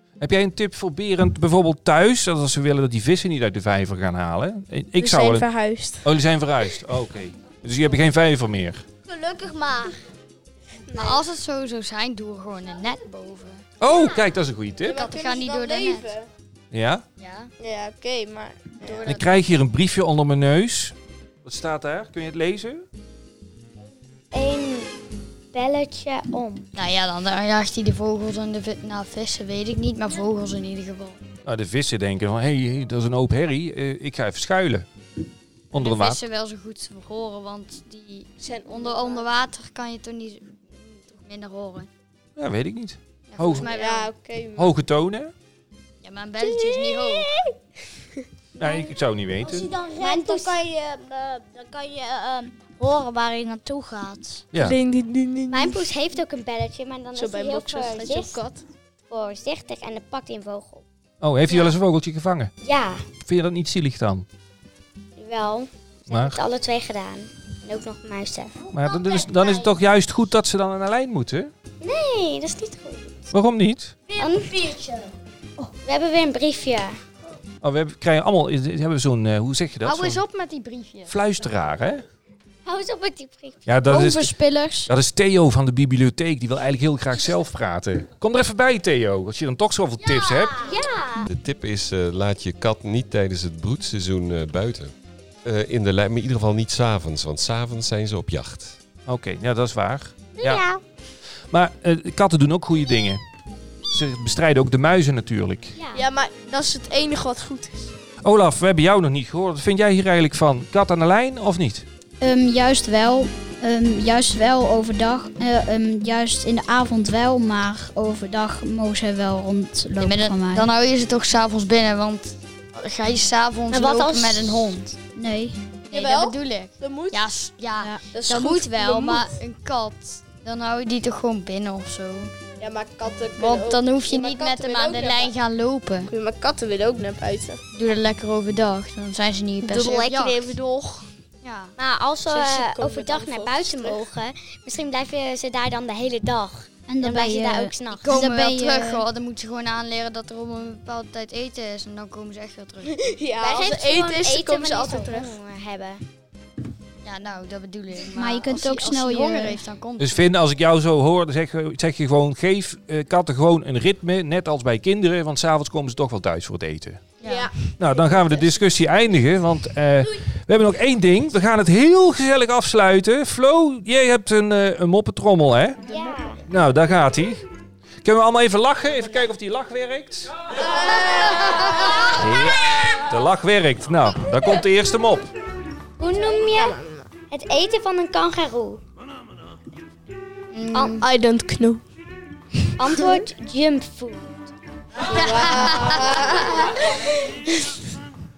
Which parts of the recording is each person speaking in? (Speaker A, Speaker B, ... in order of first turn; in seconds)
Speaker A: 0.2-5.5, 6.0-8.8, 13.8-15.1, 16.7-17.1, 19.1-22.9, 31.4-34.9, 35.7-36.2, 42.4-43.7, 44.6-45.3, 48.6-49.7, 54.5-54.8, 61.2-62.5, 63.2-64.3, 66.1-66.4, 68.7-71.5, 73.3-74.0, 77.6-80.2, 81.1-82.0, 83.7-84.4, 84.9-90.7, 99.1-100.6, 101.5-103.2, 103.9-105.8, 108.2-111.9, 160.0-167.0, 167.8-175.8, 176.5-177.5, 178.0-180.3, 182.1-185.3
Speaker B: 5.0-6.1, 10.9-11.2, 14.8-16.3, 17.6-19.2, 38.4-39.3, 43.5-44.8, 54.6-55.8, 57.1-58.6, 105.9-107.9, 125.9-127.4, 128.1-129.4, 132.6-135.3, 136.1-137.6, 139.6-141.1, 142.3-144.1, 152.8-155.3, 167.2-167.6, 175.9-176.2, 180.7-182.1, 186.3-187.1, 190.8-191.8, 195.1-196.8
Speaker C: 9.1-10.0, 48.6-48.9, 49.5-54.5, 68.8-69.7, 74.1-75.1, 90.0-90.5
Speaker D: 10.9-13.6, 14.9-16.1, 17.2-17.5, 18.8-19.3, 26.8-31.2, 35.8-41.9, 43.3-44.1, 46.0-47.3, 79.8-81.1, 120.0-125.0, 125.9-132.3, 133.4-136.1, 137.7-140.5, 141.4-141.8, 148.0-153.1, 157.0-160.2, 167.2-167.6, 190.5-191.0
Speaker E: 24.3-24.9, 25.5-26.7, 50.0-50.6, 55.5-58.4, 59.1-60.9, 61.5-61.7, 62.6-63.1, 65.2-68.6, 71.8-73.3, 74.2-74.5, 75.8-77.0, 82.7-83.6, 90.6-91.3, 100.4-100.8, 105.8-106.1, 123.7-124.8, 141.8-148.2, 153.4-156.0, 175.9-176.4, 186.0-186.8, 187.3-188.8, 190.7-191.0, 192.8-194.5, 195.1-196.8
Speaker F: 83.9-84.9, 112.2-120.7, 125.2-125.6, 146.9-149.1, 158.1-159.6
Speaker G: 91.2-94.9, 95.5-98.8